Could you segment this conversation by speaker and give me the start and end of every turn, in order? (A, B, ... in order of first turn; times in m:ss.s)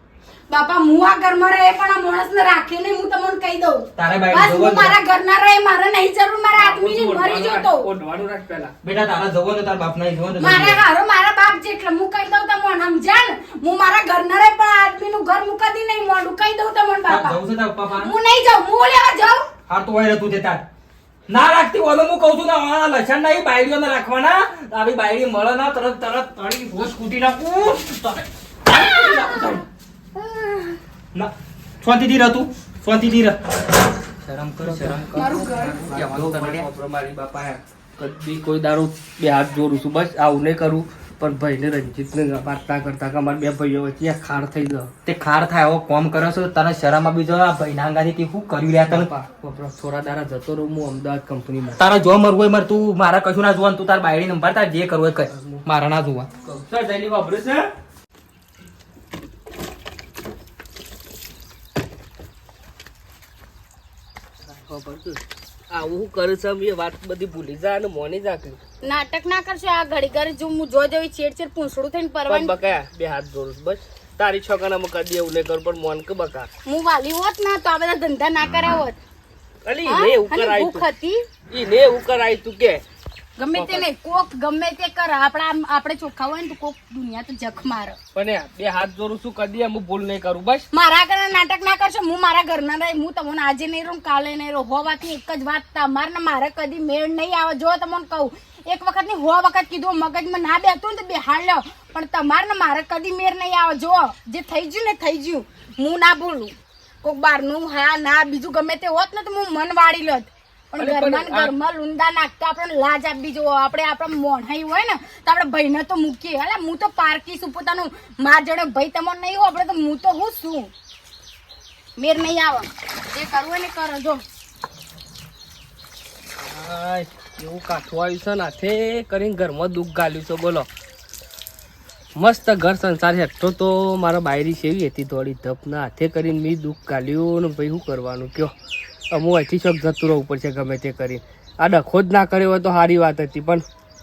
0:00.5-0:07.9 A
0:04.0-0:05.0 B
0:06.6-0:08.7 C
0:08.8-0:10.8 B
0:10.4-0:17.4 A
0:17.1-0:18.1 B
0:17.9-0:19.5 A
0:19.7-0:20.6 B
0:21.3-0:29.6 B
0:31.1-0:33.6 B
0:34.2-0:36.7 B
0:34.6-0:44.9 C
0:35.2-0:35.8 A
0:45.1-0:49.1 B
0:48.9-0:51.8 C
0:51.8-0:56.3 B
0:55.3-0:55.6 C
0:56.4-0:57.7 C
1:04.5-1:08.6 C
1:08.8-1:12.5 A
1:12.3-1:16.5 C
1:16.7-1:19.0 A
1:19.6-1:20.8 C
1:19.9-1:21.2 A
1:21.5-1:22.8 C
1:23.4-1:28.0 A
1:23.6-1:23.8 C
1:28.2-1:30.7 C
1:30.7-2:00.7 A
1:50.8-1:51.5 C
2:02.0-2:04.2 A
2:06.4-2:10.7 C
2:12.2-2:18.5 C
2:19.1-2:23.6 C